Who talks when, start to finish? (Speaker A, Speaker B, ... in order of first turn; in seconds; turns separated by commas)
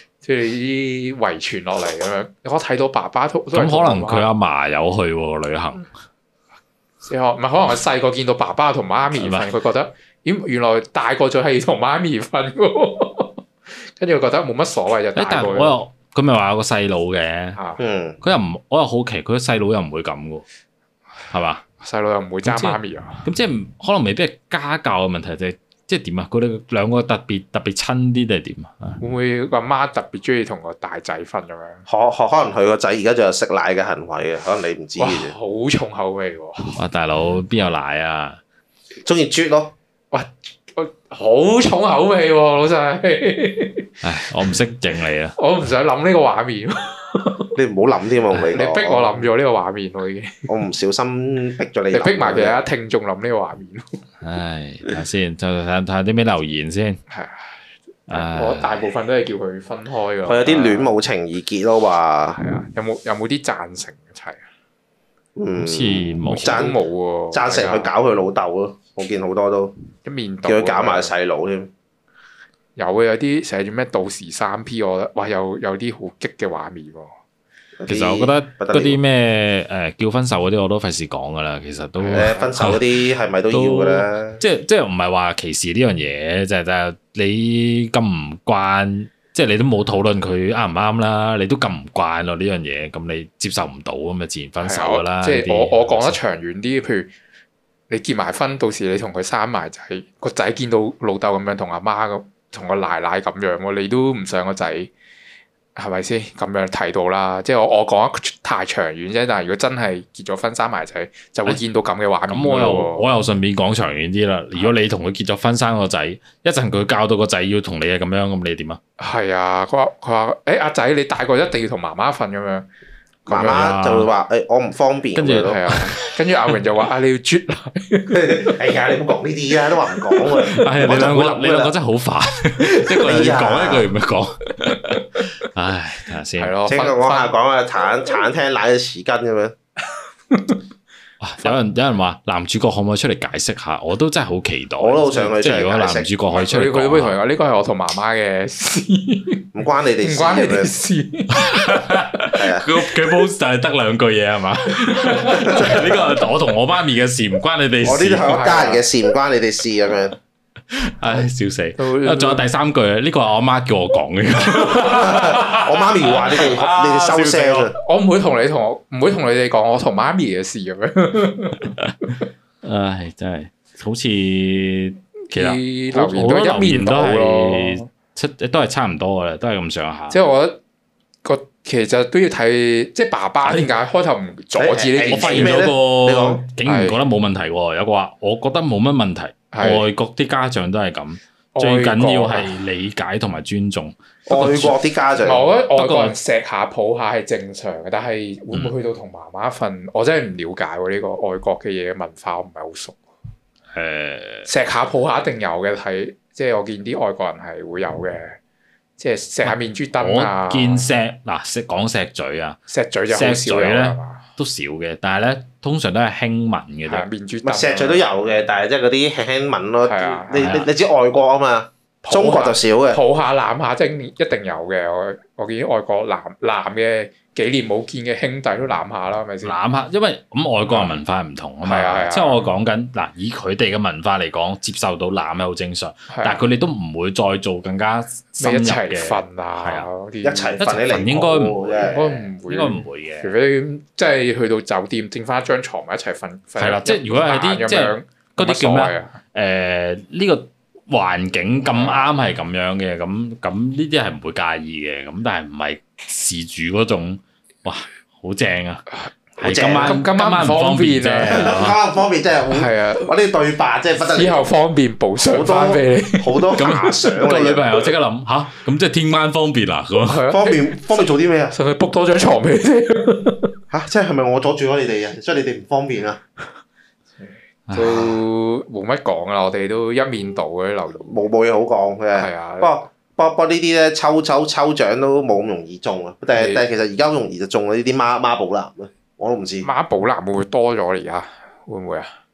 Speaker A: 0.2-4.3, Speaker B: 3.5-5.9, Speaker A: 7.0-15.8, Speaker B: 9.1-9.5, Speaker B: 15.2-17.6, Speaker A: 17.6-17.8, Speaker C: 17.8-18.2, Speaker B: 18.2-20.4, Speaker B: 21.3-21.6, Speaker A: 21.8-23.2, Speaker B: 22.4-29.0, Speaker A: 29.0-31.9, Speaker C: 31.9-35.3, Speaker A: 35.0-36.8, Speaker B: 36.8-38.4, Speaker C: 39.0-39.7, Speaker A: 40.1-43.9, Speaker B: 44.0-45.3, Speaker A: 45.4-47.5, Speaker C: 47.5-49.3, Speaker A: 48.5-50.5, Speaker C: 50.5-52.6, Speaker A: 51.9-54.0, Speaker B: 54.2-57.0, Speaker A: 57.1-57.5, Speaker B: 58.1-58.8, Speaker A: 58.1-60.9, Speaker C: 60.2-62.4, Speaker A: 62.4-64.5, Speaker C: 65.3-66.8, Speaker B: 65.5-66.7, Speaker A: 66.3-67.9, Speaker C: 67.3-69.7, Speaker A: 70.0-71.1, Speaker C: 70.5-71.7, Speaker A: 72.8-77.2, Speaker C: 77.8-79.0, Speaker B: 77.9-82.8, Speaker A: 82.0-82.6, Speaker C: 82.1-84.4, Speaker B: 83.5-96.2, Speaker A: 94.6-97.1, Speaker A: 97.9-104.9, Speaker A: 105.8-113.0, Speaker B: 112.3-118.8, Speaker A: 119.0-122.7, Speaker C: 123.3-125.6, Speaker A: 123.3-123.6, Speaker B: 123.3-124.1, Speaker B: 125.2-126.1, Speaker A: 125.4-128.6, Speaker C: 128.1-131.7, Speaker B: 130.5-136.5, Speaker C: 132.9-133.9, Speaker A: 136.4-137.3, Speaker C: 136.7-139.5, Speaker A: 140.3-140.6, Speaker B: 141.2-147.2, Speaker C: 144.8-146.5, Speaker A: 146.5-149.5, Speaker C: 149.5-150.7, Speaker A: 150.0-151.8, Speaker B: 151.3-158.6, Speaker C: 152.3-152.7, Speaker A: 154.9-156.2, Speaker C: 157.8-160.2, Speaker A: 158.2-158.8, Speaker B: 160.7-167.7, Speaker A: 161.8-162.4, Speaker C: 164.8-167.7, Speaker A: 167.8-171.7, Speaker B: 171.8-172.1, Speaker B: 172.6-180.2, Speaker A: 175.3-177.9, Speaker A: 180.1-180.6, Speaker A: 181.2-185.6, Speaker B: 183.4-183.7, Speaker C: 184.6-186.4, Speaker B: 185.1-194.8, Speaker A: 186.7-187.0, Speaker A: 189.5-189.8, Speaker A: 191.5-192.5, Speaker C: 194.3-195.5, Speaker A: 195.2-203.0, Speaker B: 195.8-196.2, Speaker B: 203.7-204.5, Speaker A: 204.5-208.4, Speaker A: 209.0-210.9, Speaker B: 209.4-212.6, Speaker A: 212.7-214.2, Speaker B: 213.1-217.1, Speaker A: 216.9-218.0, Speaker C: 217.4-223.0, Speaker A: 219.8-220.6, Speaker B: 220.4-220.7, Speaker A: 222.0-229.6, Speaker B: 229.4-239.9, Speaker A: 230.7-231.0, Speaker A: 231.6-232.5, Speaker A: 236.1-236.4, Speaker A: 238.4-240.6, Speaker C: 240.2-242.2, Speaker B: 240.6-243.3, Speaker A: 241.8-249.2, Speaker B: 246.6-258.8, Speaker A: 251.7-252.1, Speaker B: 259.4-261.8, Speaker C: 259.4-260.0, Speaker A: 259.8-261.6, Speaker C: 261.3-264.4, Speaker A: 262.5-263.1, Speaker A: 264.0-266.7, Speaker C: 265.2-267.9, Speaker B: 266.6-270.2, Speaker A: 270.0-273.5, Speaker C: 270.3-271.5, Speaker C: 273.7-276.2, Speaker A: 277.2-281.1, Speaker B: 277.7-278.1, Speaker C: 281.0-289.7, Speaker A: 282.1-282.7, Speaker A: 286.3-286.6, Speaker A: 289.6-292.1